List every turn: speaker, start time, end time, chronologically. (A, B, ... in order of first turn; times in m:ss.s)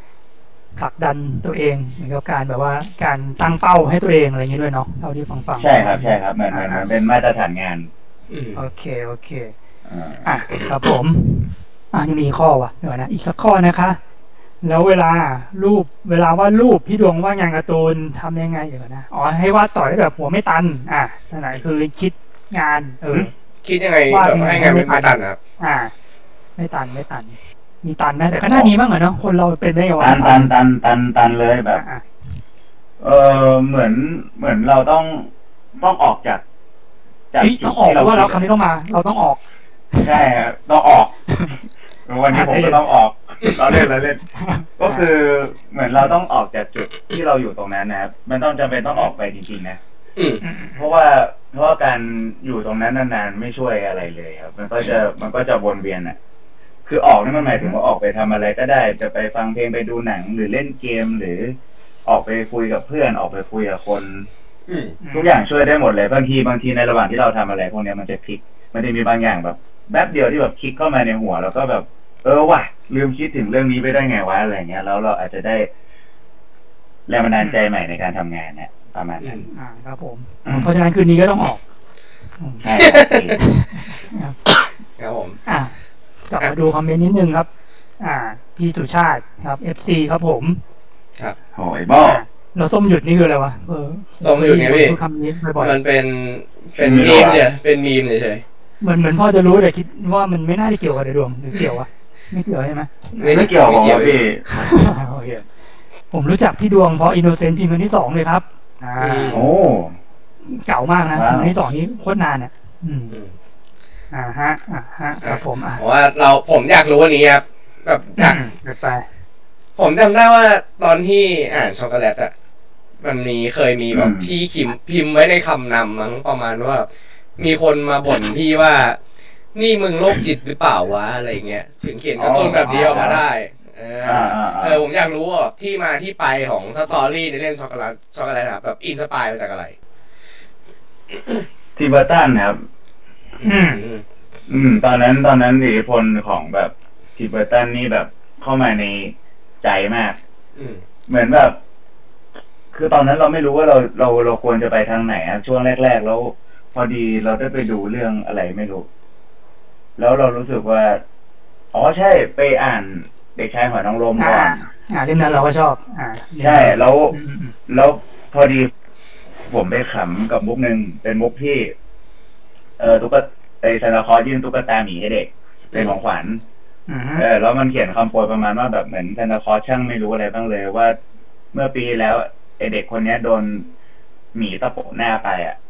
0:00.8-0:06.9 A
0:05.6-0:07.9 B
0:08.3-0:08.6 C
0:08.6-0:09.5 A
0:09.9-0:10.2 B
0:10.2-0:14.0 A
0:14.6-0:23.3 A
0:23.6-0:25.4 C
0:24.1-0:25.9 A
0:26.6-0:30.5 A
0:28.5-0:28.7 B
0:30.0-0:31.8 B
0:31.7-0:32.0 A
0:33.0-0:36.4 B
0:37.3-0:38.4 B
0:37.4-0:39.4 A
0:39.9-0:40.2 A
0:40.0-0:41.2 B
0:42.1-0:44.2 B
0:42.3-0:42.8 A
0:44.4-0:45.1 A
0:44.8-0:49.8 B
0:50.2-0:50.4 C
0:50.4-0:50.8 A
0:50.8-0:56.2 B
0:56.9-1:04.3 B
0:57.3-0:57.8 A
1:04.7-1:05.0 C
1:05.0-1:05.4 A
1:05.1-1:15.7 B
1:17.1-1:19.5 B
1:19.5-1:21.6 A
1:20.4-1:20.7 B
1:22.4-1:22.7 A
1:22.6-1:23.4 B
1:22.8-1:23.3 C
1:23.4-1:24.4 A
1:25.0-1:25.4 C
1:25.5-1:25.7 A
1:26.3-1:27.5 A
1:28.0-1:30.6 A
1:31.6-1:32.2 B
1:32.0-1:35.8 A
1:34.2-1:35.0 C
1:35.6-1:38.4 C
1:36.8-1:37.5 B
1:38.8-1:43.5 A
1:43.2-1:44.2 C
1:43.3-1:44.8 B
1:44.5-1:45.4 A
1:46.1-1:49.4 A
1:49.0-1:49.4 C
1:49.3-1:50.0 B
1:50.5-1:53.2 A
1:51.1-1:51.5 B
1:54.1-1:55.8 A
1:55.2-1:58.4 C
1:58.2-1:59.1 A
1:59.8-2:02.3 C
2:03.0-2:09.0 C
2:03.9-2:04.3 B
2:09.6-2:19.7 C
2:12.2-2:13.2 B
2:12.4-2:13.2 A
2:14.0-2:14.9 B
2:21.8-2:22.6 B
2:23.4-2:24.0 C
2:23.4-2:23.8 A
2:24.5-2:30.2 B
2:30.5-2:30.8 C
2:31.1-2:31.6 B
2:32.7-2:38.9 B
2:40.0-2:41.0 B
2:41.7-2:44.6 B
2:44.2-2:47.5 A
2:46.4-2:47.2 B
2:47.7-2:48.7 B
2:49.5-2:51.7 B
2:52.8-2:56.4 B
2:56.9-2:57.2 A
2:57.2-3:01.0 B
3:01.5-3:03.7 B
3:04.4-3:05.6 B